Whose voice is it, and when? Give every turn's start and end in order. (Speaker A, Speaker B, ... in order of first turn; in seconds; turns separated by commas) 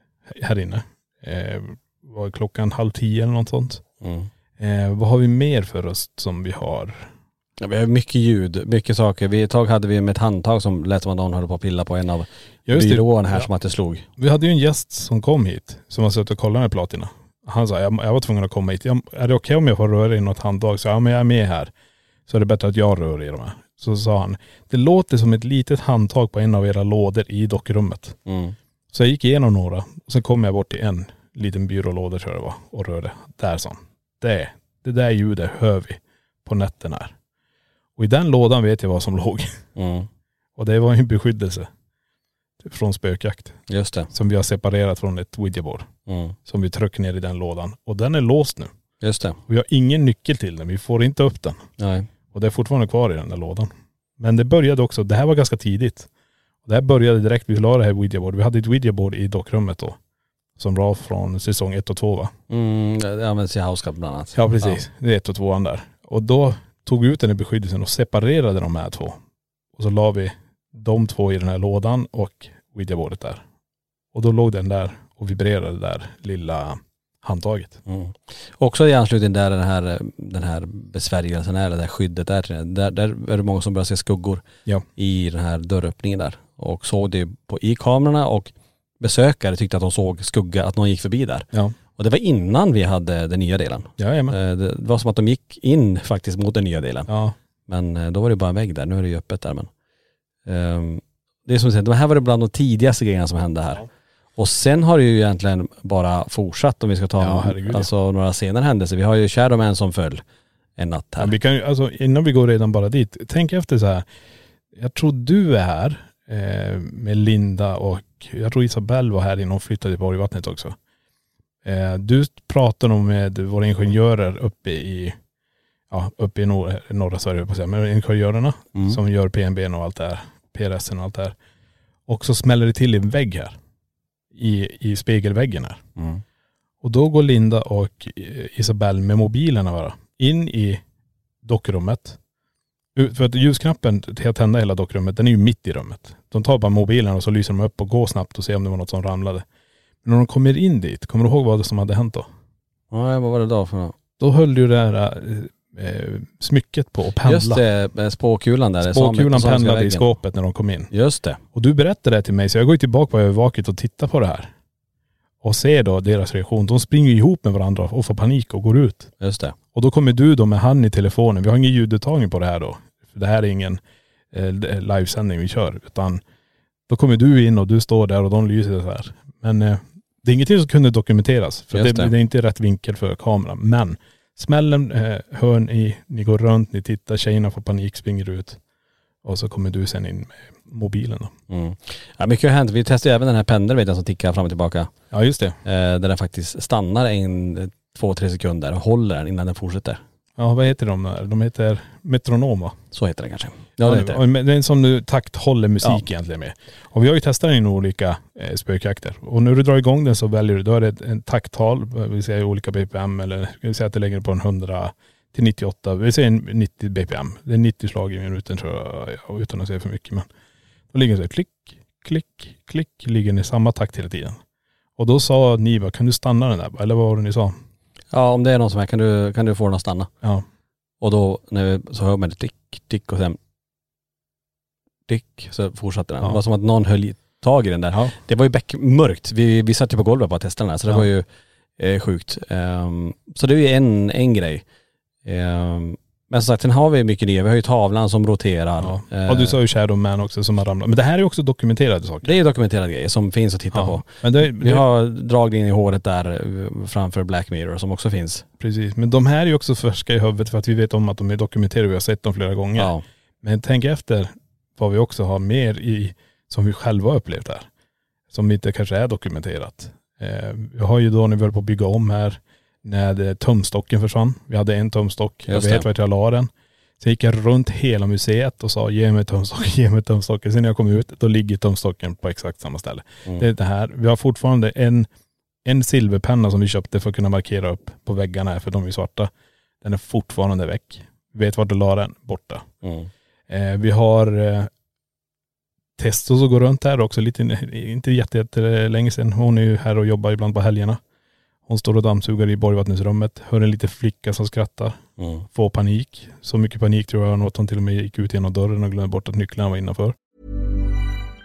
Speaker A: 0.3-3.8, Speaker B: 4.0-4.3, Speaker A: 4.6-7.1, Speaker B: 7.6-14.1, Speaker A: 12.7-13.5, Speaker A: 14.2-21.7, Speaker A: 22.3-28.2, Speaker B: 28.3-28.6, Speaker A: 28.9-37.1, Speaker A: 38.0-39.6, Speaker B: 39.8-40.1, Speaker A: 40.6-41.7, Speaker A: 42.6-45.9, Speaker B: 43.7-44.1, Speaker B: 46.1-46.4, Speaker A: 46.5-48.7, Speaker B: 49.0-49.4, Speaker A: 49.5-51.7, Speaker B: 51.8-52.1, Speaker A: 52.3-56.1, Speaker A: 56.6-60.0, Speaker A: 60.6-62.3, Speaker B: 62.5-64.8, Speaker A: 64.3-69.2, Speaker A: 69.7-73.4, Speaker A: 74.1-77.8, Speaker B: 77.9-84.4, Speaker B: 85.0-97.1, Speaker A: 94.0-94.4, Speaker A: 97.1-97.4, Speaker B: 97.7-99.7, Speaker B: 100.5-103.8, Speaker B: 104.4-110.2, Speaker A: 107.2-107.9, Speaker B: 110.8-111.3, Speaker A: 111.2-114.1, Speaker A: 114.7-120.8, Speaker A: 121.6-125.2, Speaker A: 125.9-131.4, Speaker B: 128.7-129.0, Speaker A: 132.1-133.6, Speaker A: 134.3-135.8, Speaker B: 136.0-136.2, Speaker A: 136.8-140.8, Speaker A: 141.4-142.2, Speaker A: 142.9-149.4, Speaker A: 150.0-152.3, Speaker B: 152.9-154.0, Speaker A: 154.2-157.6, Speaker B: 157.2-160.2, Speaker A: 158.8-160.9, Speaker B: 160.9-161.4, Speaker A: 161.5-164.5, Speaker A: 165.4-169.1, Speaker B: 169.2-169.6, Speaker A: 169.7-173.8, Speaker A: 174.3-176.2, Speaker A: 176.9-188.6, Speaker B: 181.7-182.1, Speaker A: 189.2-191.3, Speaker B: 191.5-194.9, Speaker A: 195.1-195.6, Speaker B: 195.7-200.0, Speaker A: 200.4-202.8, Speaker B: 202.9-204.2, Speaker A: 203.8-220.3, Speaker A: 220.9-224.4, Speaker A: 225.0-227.6, Speaker B: 228.1-230.1, Speaker B: 231.0-233.4, Speaker B: 235.1-241.2, Speaker B: 241.8-244.7, Speaker B: 245.2-249.6, Speaker A: 248.8-252.4, Speaker B: 252.2-258.4, Speaker A: 253.7-254.8, Speaker A: 258.6-267.7, Speaker B: 262.8-263.0, Speaker A: 268.3-285.1, Speaker B: 275.5-275.9, Speaker A: 285.6-289.3, Speaker A: 289.8-292.7, Speaker B: 292.8-293.1, Speaker A: 293.5-294.7, Speaker A: 296.0-301.0, Speaker A: 301.7-310.2, Speaker B: 305.2-305.5